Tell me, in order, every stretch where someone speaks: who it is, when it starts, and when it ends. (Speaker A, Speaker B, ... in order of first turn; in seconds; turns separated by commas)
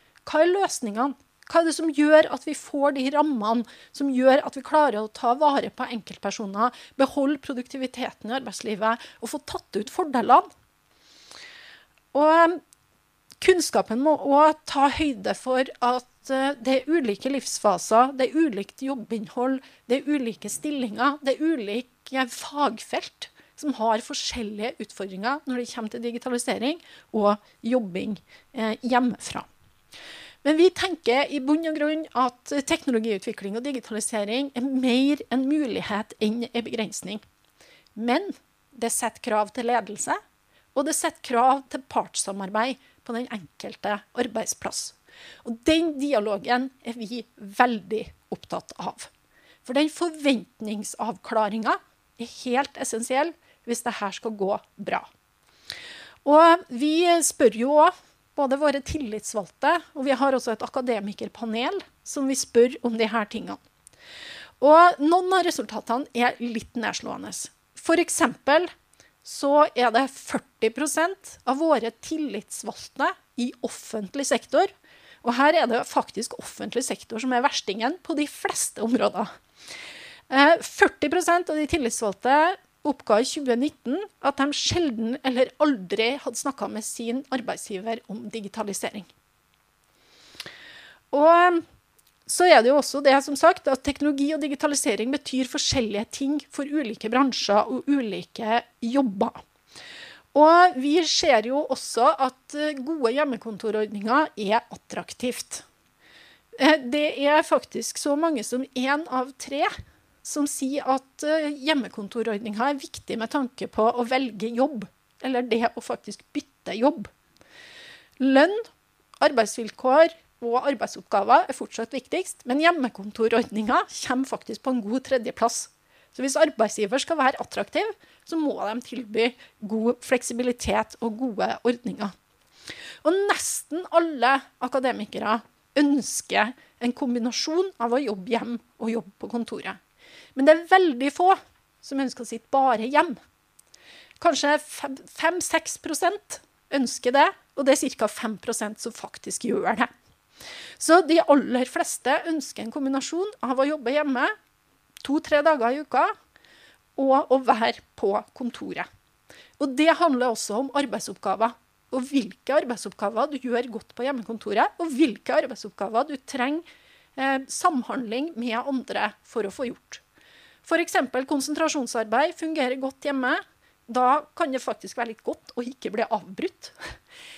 Speaker A: 0.2-10.5, Speaker A: 12.1-12.6, Speaker A: 13.4-29.5, Speaker A: 30.4-37.2, Speaker A: 38.0-40.2, Speaker A: 40.7-49.1, Speaker A: 49.6-55.1, Speaker A: 56.2-63.6, Speaker A: 64.6-68.7, Speaker A: 69.2-79.3, Speaker A: 80.3-89.1, Speaker A: 91.1-91.7, Speaker A: 92.2-99.4, Speaker A: 100.3-105.6, Speaker A: 106.6-117.1, Speaker A: 118.2-118.7, Speaker A: 119.2-132.1, Speaker A: 133.0-139.8, Speaker A: 140.3-143.2, Speaker A: 144.2-149.9, Speaker A: 150.8-154.3, Speaker A: 155.0-156.1, Speaker A: 156.9-158.9, Speaker A: 159.6-170.0, Speaker A: 170.6-176.9